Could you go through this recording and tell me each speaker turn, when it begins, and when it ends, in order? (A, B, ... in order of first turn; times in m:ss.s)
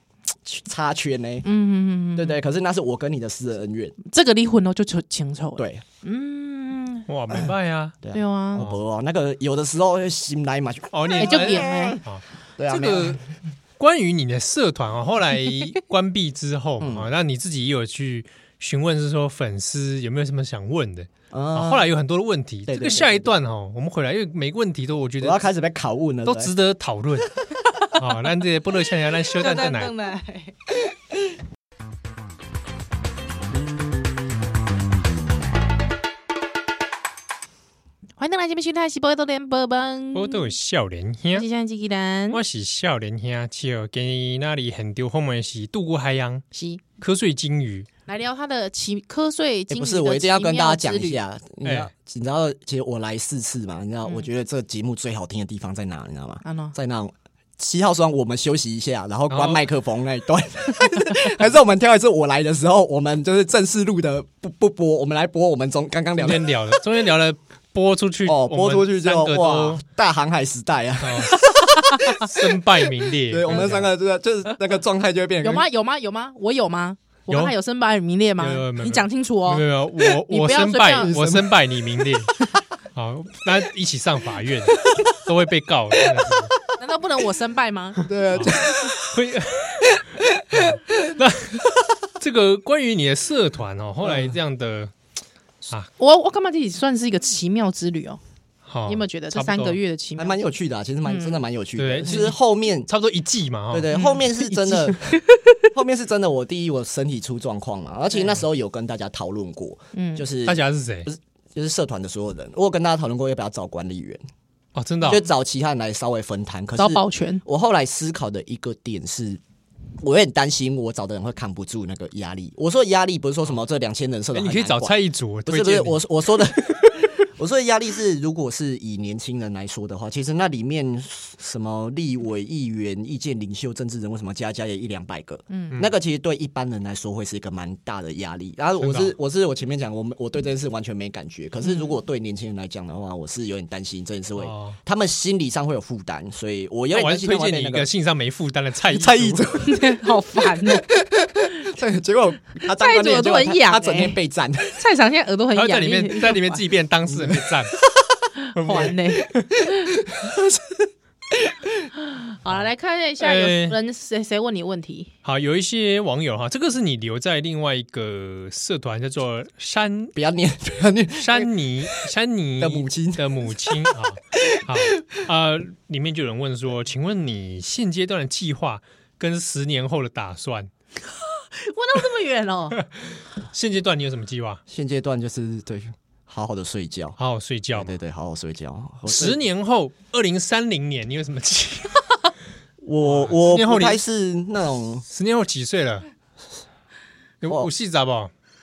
0:00.4-0:01.4 A
0:01.4-0:02.4 B
0:02.2-0:04.0 A
0:04.0-0:07.1 B
0:05.6-0:05.8 A
0:07.1-0:08.0 C
0:08.0-0:12.0 A
0:08.1-0:08.6 B
0:10.9-0:13.2 C
0:11.2-0:12.0 B
0:12.6-0:13.2 A
0:13.8-0:25.4 C
0:16.8-0:17.1 A
0:21.3-0:21.9 A
0:22.7-0:23.3 A
0:25.2-0:26.5 A
0:26.2-0:27.4 C
0:27.9-0:30.0 C
0:29.4-0:30.5 B
0:38.2-0:40.5 B
0:40.1-0:41.5 C
0:41.3-0:42.4 B
0:42.3-0:46.4 C
0:46.5-0:46.8 B
0:47.0-0:47.9 C
0:48.1-0:51.2 B
0:49.7-1:06.6 A
0:51.6-0:51.9 C
0:56.4-0:56.8 B
0:59.3-0:59.6 C
1:06.2-1:09.8 C
1:08.2-1:12.3 A
1:11.0-1:11.5 C
1:11.8-1:12.2 B
1:12.1-1:13.9 C
1:13.3-1:15.7 A
1:15.4-1:19.6 B
1:18.4-1:22.4 C
1:20.2-1:21.1 B
1:21.0-1:21.5 A
1:23.0-1:26.5 C
1:26.8-1:28.6 B
1:28.0-1:29.2 A
1:28.3-1:34.9 C
1:29.9-1:30.7 A
1:34.0-1:34.4 A
1:36.0-1:38.2 B
1:38.7-1:39.8 C
1:38.9-1:40.5 B
1:40.2-1:42.9 A
1:41.1-1:41.4 B
1:41.8-1:44.0 C
1:43.7-1:45.2 A
1:43.9-1:45.7 B
1:45.7-1:54.2 A
1:49.9-1:50.2 B
1:50.5-1:51.1 C
1:54.8-1:55.2 C
1:55.0-1:59.4 A
1:56.8-1:57.4 B
2:00.0-2:27.9 A
2:04.3-2:07.0 C
2:15.5-2:15.8 B
2:18.8-2:19.1 C
2:21.6-2:22.0 B
2:24.4-2:24.8 C
2:26.9-2:29.4 C
2:28.9-2:34.8 A
2:29.6-2:30.9 B
2:32.7-2:34.2 B
2:34.7-2:36.6 B
2:35.5-2:37.8 C
2:37.1-2:38.2 A
2:38.4-2:39.9 B
2:38.6-2:39.5 C
2:39.6-2:41.9 A
2:42.0-2:45.1 B
2:43.2-2:43.8 C
2:45.2-2:50.2 C
2:50.2-2:52.0 A
2:51.2-3:00.7 C
2:52.6-2:55.2 A
3:01.2-3:02.8 B
3:03.5-3:04.6 C
3:04.7-3:07.2 A
3:07.2-3:08.0 C
3:07.7-3:09.4 A
3:09.1-3:12.3 C
3:12.8-3:15.0 A
3:13.0-3:14.0 C
3:15.1-3:16.1 C
3:17.4-3:18.3 C